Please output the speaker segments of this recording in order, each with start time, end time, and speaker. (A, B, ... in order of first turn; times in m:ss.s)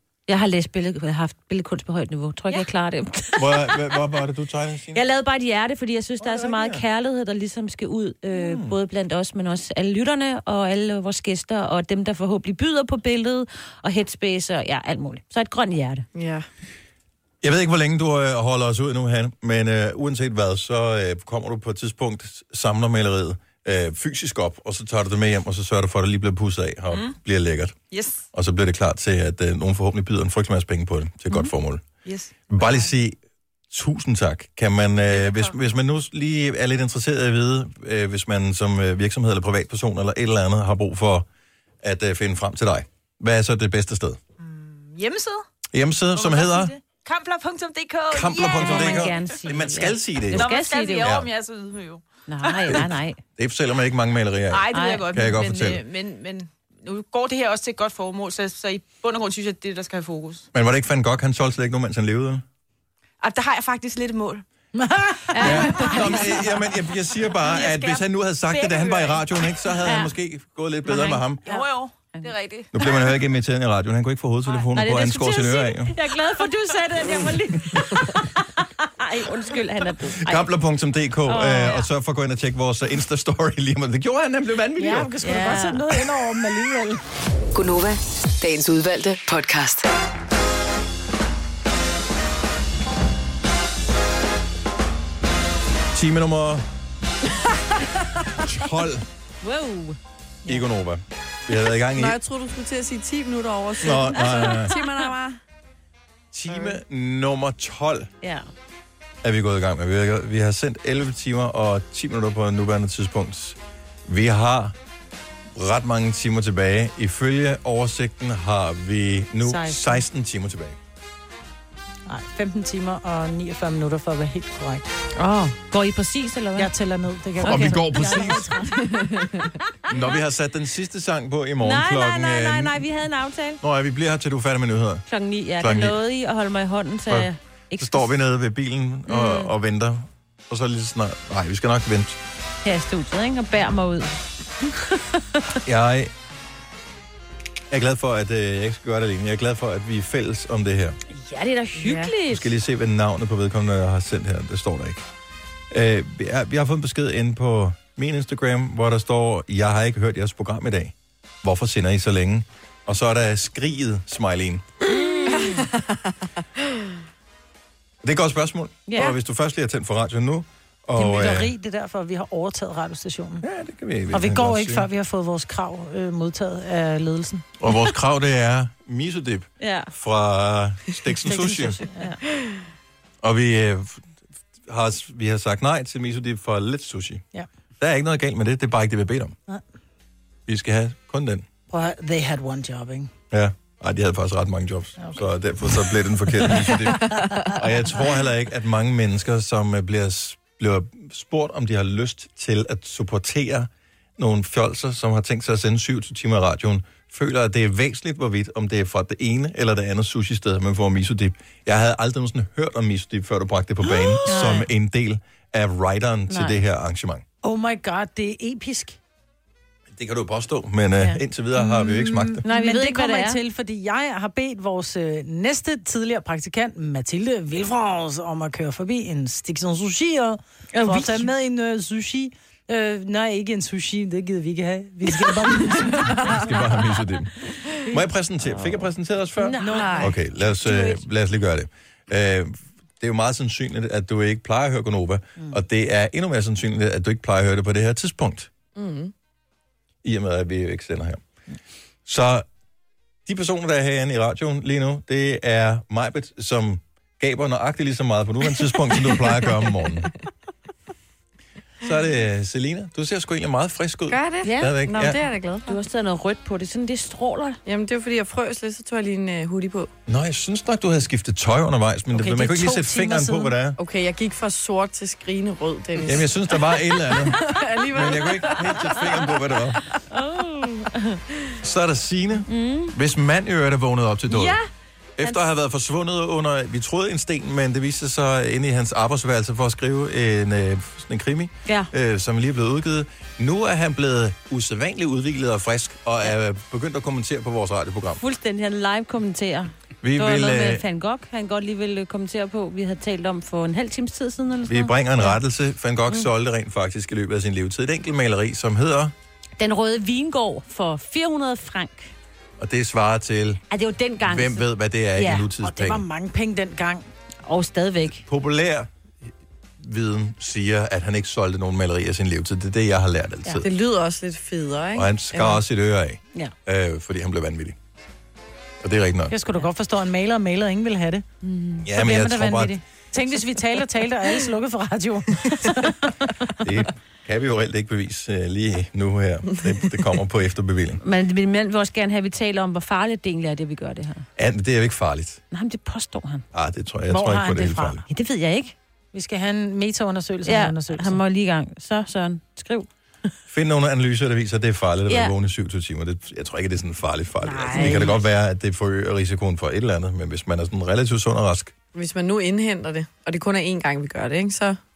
0:00.3-0:03.8 A
0:03.3-0:05.0 B
0:04.9-0:16.0 A
0:06.2-0:06.8 B
0:08.3-0:08.8 B
0:16.1-0:16.5 C
0:17.4-0:27.8 B
0:27.9-0:28.2 D
0:28.3-0:31.9 B
0:32.0-0:32.9 D
0:32.5-0:33.2 B
0:33.7-0:41.2 B
0:35.1-0:35.5 D
0:41.8-0:44.2 B
0:44.4-0:45.4 D
0:45.7-0:46.7 B
0:46.1-0:49.3 D
0:48.1-0:50.5 B
0:48.4-0:51.1 A
0:50.3-0:52.8 D
0:51.0-0:51.3 B
0:52.3-0:53.2 A
0:52.7-0:55.8 B
0:54.5-1:00.5 D
0:54.7-0:55.1 A
1:00.5-1:02.4 B
1:03.2-1:04.4 D
1:04.8-1:05.8 E
1:05.3-1:06.2 A
1:05.4-1:11.4 B
1:07.4-1:09.2 D
1:09.8-1:10.1 A
1:10.9-1:12.3 A
1:11.4-1:12.8 D
1:12.7-1:16.0 B
1:14.7-1:20.5 A
1:17.6-1:18.1 B
1:20.2-1:25.1 B
1:21.3-1:21.9 A
1:24.8-1:27.0 E
1:25.2-1:25.9 A
1:27.5-1:29.9 F
1:35.9-1:36.6 B
1:38.4-1:39.0 B
1:39.4-1:40.0 A
1:40.4-1:42.2 B
1:41.9-1:45.4 C
1:43.8-1:44.7 B
1:44.0-1:45.1 A
1:46.3-1:48.1 B
1:48.2-1:48.5 A
1:49.2-1:54.7 B
1:55.5-2:00.8 B
1:59.4-2:00.0 E
2:02.1-2:04.8 E
2:05.2-2:06.7 A
2:06.6-2:08.7 E
2:07.4-2:10.1 A
2:07.4-2:08.6 B
2:09.9-2:12.8 B
2:11.6-2:13.6 A
2:13.6-2:15.0 B
2:15.1-2:18.1 A
2:15.6-2:16.0 B
2:17.1-2:22.2 B
2:19.1-2:19.5 A
2:22.6-2:25.6 A
2:25.6-2:26.1 B
2:27.7-2:31.0 B
2:31.1-2:32.5 A
2:31.8-2:32.1 C
2:32.2-2:35.0 B
2:35.7-2:44.7 B
2:44.9-2:45.7 A
2:48.0-2:51.5 B
2:48.9-2:49.2 A
2:51.0-2:53.4 E
2:53.4-2:54.9 B
2:54.1-2:57.5 E
2:57.6-3:01.8 B
2:59.6-2:59.9 A
3:01.5-3:02.2 A
3:01.6-3:02.1 E
3:03.2-3:04.0 B
3:04.7-3:07.2 B
3:07.8-3:09.4 B
3:10.5-3:11.4 B
3:11.7-3:13.1 E
3:13.3-3:37.2 B
3:34.1-3:34.7 A
3:36.3-3:36.6 A
3:37.4-3:39.0 E
3:39.9-3:42.4 B
3:41.6-3:56.4 E
3:42.4-3:43.4 A
3:50.7-3:51.3 A
3:56.0-4:08.5 B
3:58.5-3:58.8 A
3:59.4-4:00.1 A
3:59.6-4:01.0 E
4:08.8-4:09.1 C
4:10.0-4:11.2 B
4:12.0-4:12.4 B
4:13.3-4:20.1 B
4:21.8-4:25.2 B
4:24.1-4:25.8 C
4:24.4-4:24.8 A
4:25.6-4:27.6 A
4:27.6-4:29.9 C
4:30.1-4:33.8 B
4:32.1-4:33.6 E
4:33.8-4:39.3 C
4:36.0-4:39.8 B
4:40.1-4:41.2 A
4:41.6-4:44.6 B
4:42.5-4:42.9 A
4:44.3-4:44.6 A
4:45.2-4:58.2 B
4:58.2-5:05.4 A
5:00.0-5:00.8 B
5:04.7-5:09.1 B
5:09.6-5:12.1 A
5:12.6-5:13.6 B
5:13.7-5:15.5 A
5:14.2-5:16.0 B
5:15.6-5:17.0 E
5:17.5-5:18.2 A
5:18.2-5:18.9 B
5:19.8-5:23.7 B
5:23.6-5:25.6 C
5:24.9-5:27.8 B
5:28.8-5:29.3 B
5:29.3-5:36.1 E
5:31.8-5:32.8 B
5:36.6-5:41.0 B
5:41.0-5:44.2 A
5:44.4-5:45.4 B
5:45.5-5:46.4 A
5:46.5-5:48.0 B
5:47.1-5:48.0 E
5:48.1-5:48.7 A
5:49.1-5:51.2 E
5:50.4-5:52.9 A
5:53.5-6:01.7 B
5:55.1-5:55.3 A
5:57.4-5:58.2 E
5:57.7-5:58.1 A
6:01.9-6:04.8 C